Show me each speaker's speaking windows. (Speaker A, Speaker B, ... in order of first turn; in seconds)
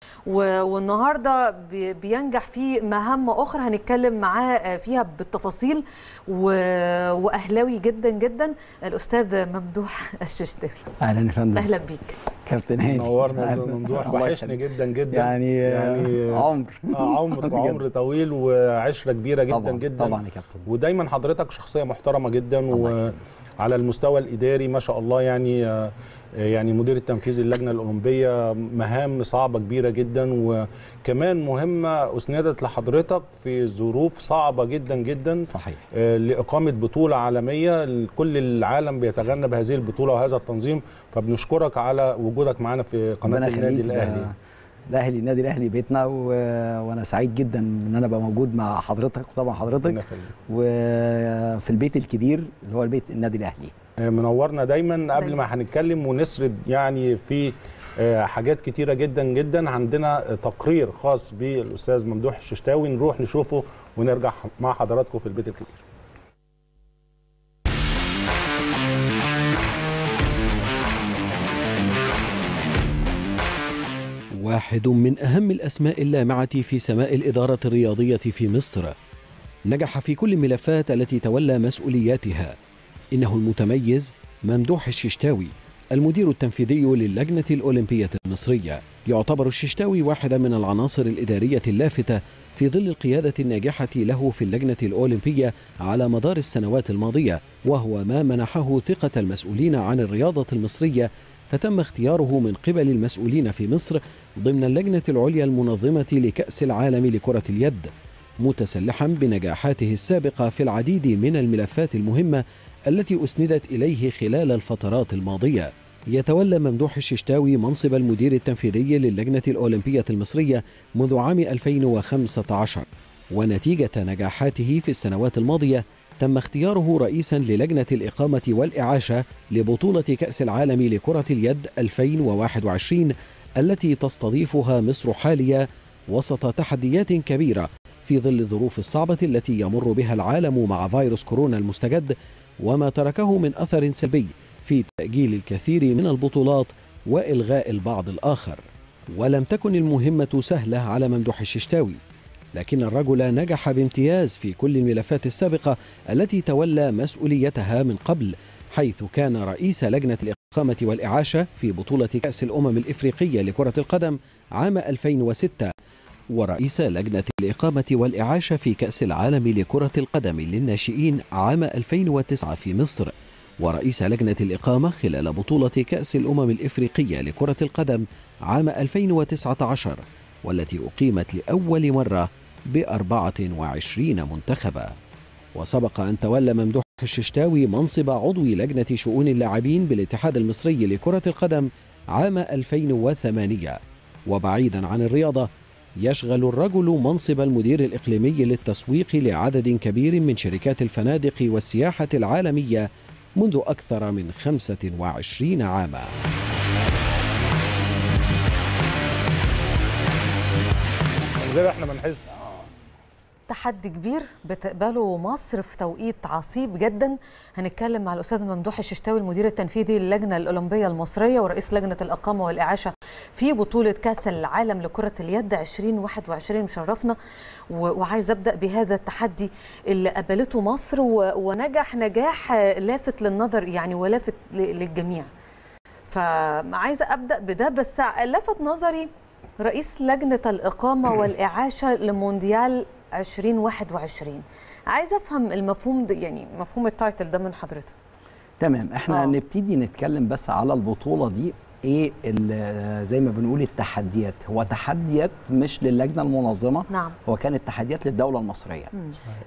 Speaker A: 0.2-10.8, 11.5-12.2, 213.5-227.2, 227.7-235.3, 236.1-239.1, 239.6-247.9, 249.1-249.3, 256.9-257.1
Speaker B: 11.0-11.7, 12.4-14.6, 15.1-17.8, 19.5-20.6, 22.7-23.2, 35.5-35.8, 43.3-44.3, 44.9-53.7, 248.6-258.9
Speaker C: 12.8-44.3, 49.8-50.3, 54.0-65.8, 211.4-212.3
Speaker D: 74.3-78.9, 79.7-82.5, 83.1-148.6, 149.1-152.0, 152.5-165.7, 166.3-184.9, 185.5-202.9, 203.4-206.1